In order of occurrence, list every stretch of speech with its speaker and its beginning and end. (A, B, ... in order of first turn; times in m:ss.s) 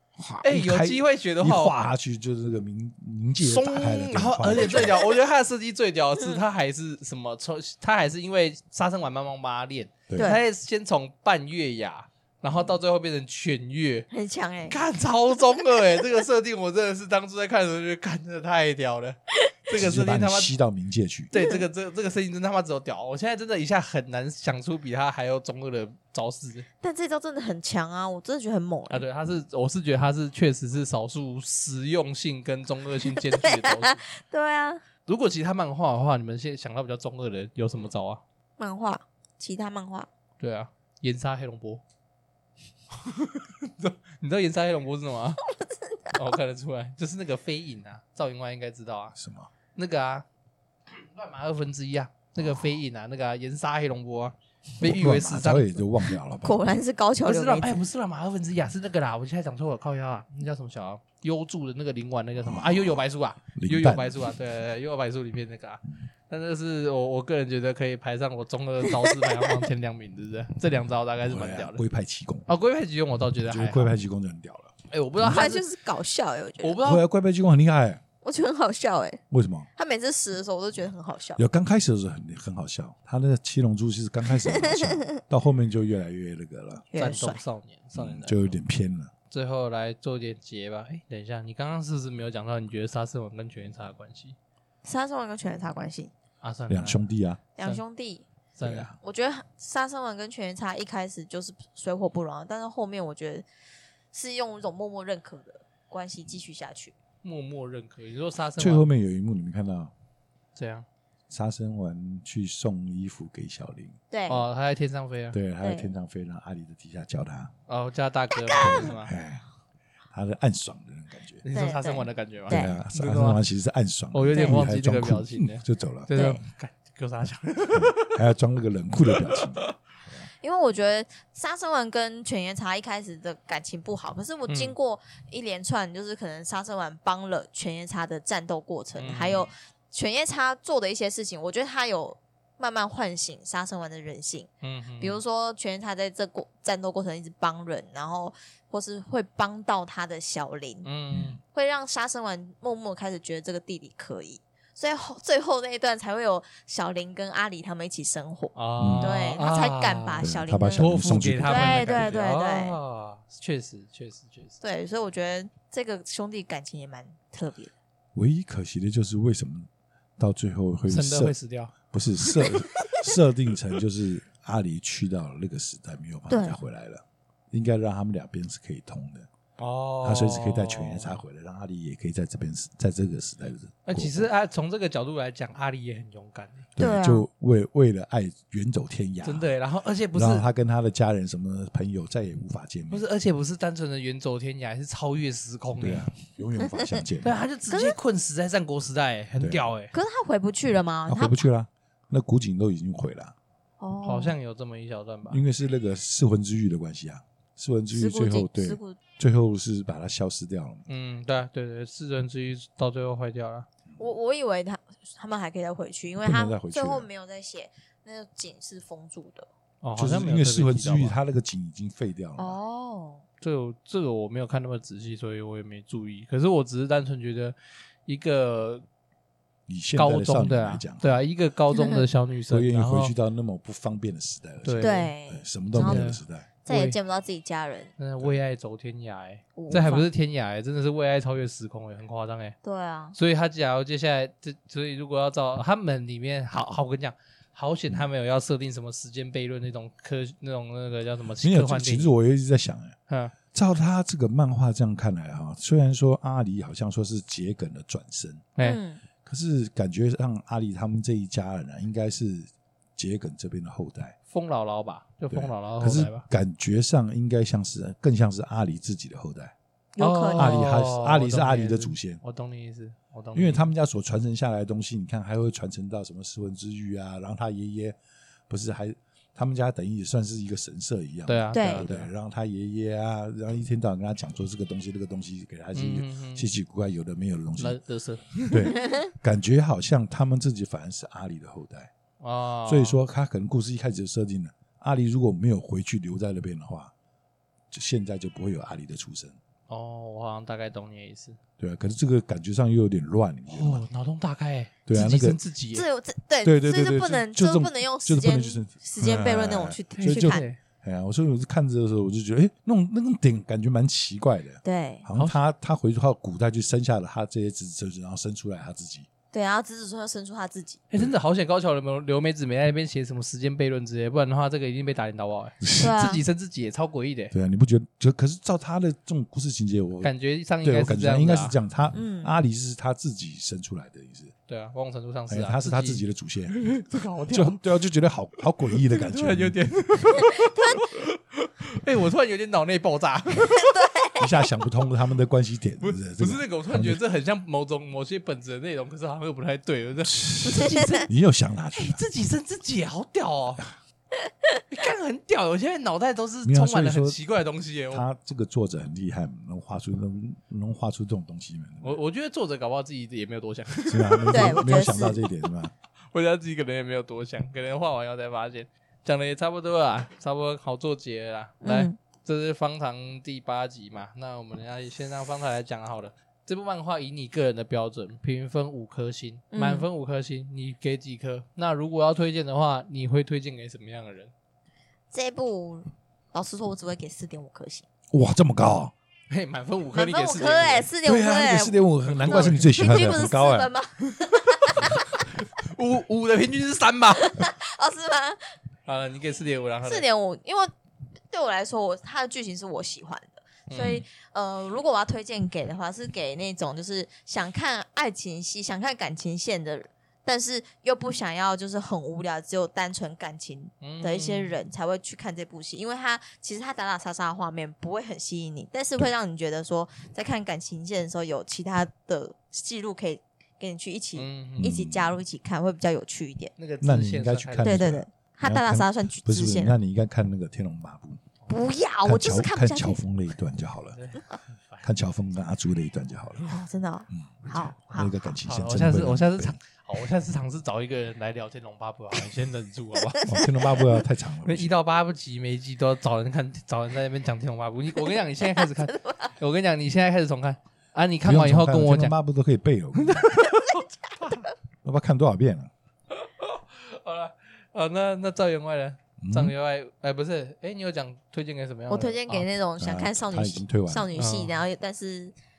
0:00.2-0:05.0 A
0:00.4-0:01.7 B
0:03.4-0:14.1 B
0:10.1-0:10.4 A
0:10.2-0:10.4 C
0:14.1-0:14.8 C
0:14.7-0:20.5 B
0:19.8-0:21.3 A
0:21.3-0:26.7 B
0:26.8-0:29.0 C
0:28.9-0:34.0 B
0:33.2-0:34.8 C
0:35.0-0:38.2 B
0:38.6-0:40.1 C
0:40.4-0:41.8 B
0:42.9-0:45.4 B
0:45.6-0:46.2 C
0:46.1-0:49.2 B
0:49.1-0:49.5 A
0:49.7-0:50.2 B
0:50.9-0:55.8 B
0:52.4-0:52.6 A
0:54.8-0:56.6 A
0:56.4-0:57.8 C
0:57.2-1:11.8 B
1:02.4-1:03.0 A
1:03.5-1:04.1 A
1:11.2-1:12.5 A
1:12.5-1:13.9 B
1:13.4-1:15.5 A
1:14.9-1:15.6 B
1:15.2-1:16.8 C
1:16.6-1:17.0 B
1:16.8-1:18.0 A
1:18.2-1:19.2 C
1:19.3-1:19.7 A
1:19.8-1:21.4 C
1:21.4-1:26.8 A
1:24.4-1:25.1 C
1:26.9-1:27.4 C
1:26.9-1:28.6 B
1:27.9-1:29.1 A
1:29.3-1:34.4 B
1:34.8-1:36.1 C
1:36.4-1:37.1 B
1:36.7-1:37.4 A
1:37.6-1:38.2 C
1:38.6-1:38.9 B
1:38.6-1:39.0 A
1:39.0-1:43.4 C
1:44.1-1:46.9 C
1:47.2-1:48.9 B
1:48.6-1:49.9 A
1:50.6-1:50.8 B
1:51.3-1:54.0 A
1:54.1-1:54.4 C
1:54.3-1:55.4 B
1:55.3-1:57.5 A
1:55.6-1:55.9 C
1:57.7-1:59.1 B
1:58.6-1:59.4 A
2:00.1-2:01.4 A
2:01.4-2:03.4 B
2:01.5-2:02.7 C
2:02.5-2:06.1 A
2:04.1-2:08.2 B
2:04.3-2:04.7 C
2:06.1-2:06.4 C
2:07.7-2:10.3 A
2:09.1-2:09.7 B
2:10.4-2:30.9 C
2:14.5-2:14.7 B
2:19.0-2:19.5 B
2:24.6-2:25.2 B
2:30.8-2:31.4 B
2:31.1-2:31.4 A
2:31.5-2:40.9 C
2:38.5-2:44.6 B
2:38.8-2:39.2 A
2:40.2-2:42.2 A
2:41.4-2:42.8 C
2:44.6-2:47.7 C
2:48.1-2:51.3 A
2:50.9-2:53.0 B
2:51.9-2:59.3 A
2:56.3-2:56.6 C
2:59.6-3:01.2 B
3:00.0-3:04.3 A
3:03.8-3:06.7 B
3:06.8-3:09.6 A
3:06.8-3:07.2 C
3:09.2-3:10.5 B
3:10.1-3:13.0 A
3:12.9-3:16.1 B
3:15.8-3:17.4 A
3:17.2-3:19.9 B
3:17.7-3:17.9 C
3:19.4-3:19.7 A
3:19.9-3:21.4 C
3:21.1-3:23.3 A
3:23.8-3:24.4 C
3:24.0-3:25.4 B
3:25.3-3:30.9 A
3:27.9-3:29.0 C
3:30.9-3:33.7 B
3:34.0-3:39.5 C
3:36.2-3:37.1 A
3:39.8-3:41.2 B
3:40.0-3:42.6 A
3:42.4-3:43.2 C
3:43.4-3:48.8 B
3:49.7-3:51.2 A
3:50.0-3:53.1 B
3:51.7-3:52.1 C
3:52.5-3:56.5 A
3:54.6-3:55.1 B
3:54.8-3:56.1 C
3:55.8-3:57.0 B
3:56.6-3:57.9 C
3:58.0-4:02.5 B
3:59.5-4:00.0 C
4:02.6-4:03.2 C
4:03.1-4:12.1 B
4:11.4-4:13.0 A
4:13.1-4:13.3 B
4:13.5-4:18.5 A
4:18.6-4:19.0 C
4:19.2-4:24.1 A
4:24.3-4:26.2 B
4:25.3-4:29.5 A
4:30.0-4:30.7 C
4:30.0-4:33.7 B
4:30.3-4:32.2 A
4:33.3-4:38.0 A
4:38.5-4:47.8 A
4:41.2-4:42.1 B
4:41.5-4:41.8 C
4:45.7-4:46.5 B
4:47.6-4:48.8 B
4:48.5-4:51.9 A
4:52.2-4:53.0 B
4:52.6-4:56.9 A
4:57.7-4:59.4 A
4:59.7-5:01.4 B
5:01.6-5:03.8 A
5:03.5-5:05.8 B
5:04.8-5:05.4 A
5:05.7-5:10.4 C
5:06.4-5:19.1 A
5:10.0-5:10.6 B
5:14.6-5:15.0 C
5:19.3-5:20.8 C
5:20.9-5:27.3 B
5:25.6-5:25.9 A
5:25.8-5:26.2 C
5:27.3-5:30.1 A
5:30.0-5:31.5 B
5:30.6-5:34.3 A
5:31.9-5:32.3 C
5:34.5-5:37.6 B
5:35.3-5:36.6 A
5:37.3-5:39.6 A
5:38.9-5:43.7 B
5:43.6-5:44.3 C
5:44.2-5:47.0 A
5:45.8-5:51.0 B
5:50.0-5:52.0 A
5:50.5-5:51.0 C
5:51.7-5:53.7 B
5:54.2-5:54.6 C
5:54.7-5:58.0 B
5:56.4-5:57.2 A
5:57.9-6:02.0 A
6:01.8-6:04.6 B
6:03.9-6:05.7 A
6:04.3-6:05.3 C
6:06.1-6:24.3 B
6:11.6-6:12.0 C
6:19.5-6:19.9 C
6:25.1-6:27.8 C
6:28.1-6:28.9 A
6:29.3-6:30.9 B
6:29.9-6:35.0 C
6:31.0-6:33.7 A
6:32.0-6:33.1 B
6:34.3-6:37.4 B
6:37.2-6:38.5 C
6:38.8-6:40.0 B
6:39.8-6:40.7 C
6:41.3-7:06.5 C
6:43.7-6:44.0 B
6:53.8-6:54.6 B
7:04.2-7:04.7 B
7:04.6-7:05.2 A
7:06.6-7:07.9 B
7:06.8-7:11.2 A
7:07.6-7:09.8 C
7:11.5-7:13.0 C
7:12.0-7:14.0 A
7:13.9-7:14.9 B
7:14.8-7:16.5 A
7:16.4-7:18.2 C
7:17.1-7:19.6 A
7:18.4-7:23.3 B
7:23.2-7:24.7 A
7:24.4-7:32.1 B
7:28.6-7:29.3 C
7:31.2-7:33.4 A
7:33.0-7:34.5 B
7:34.8-7:35.7 A
7:36.1-7:42.5 B
7:39.2-7:39.5 A
7:41.9-7:45.3 C
7:42.8-7:44.1 A
7:44.1-7:44.6 B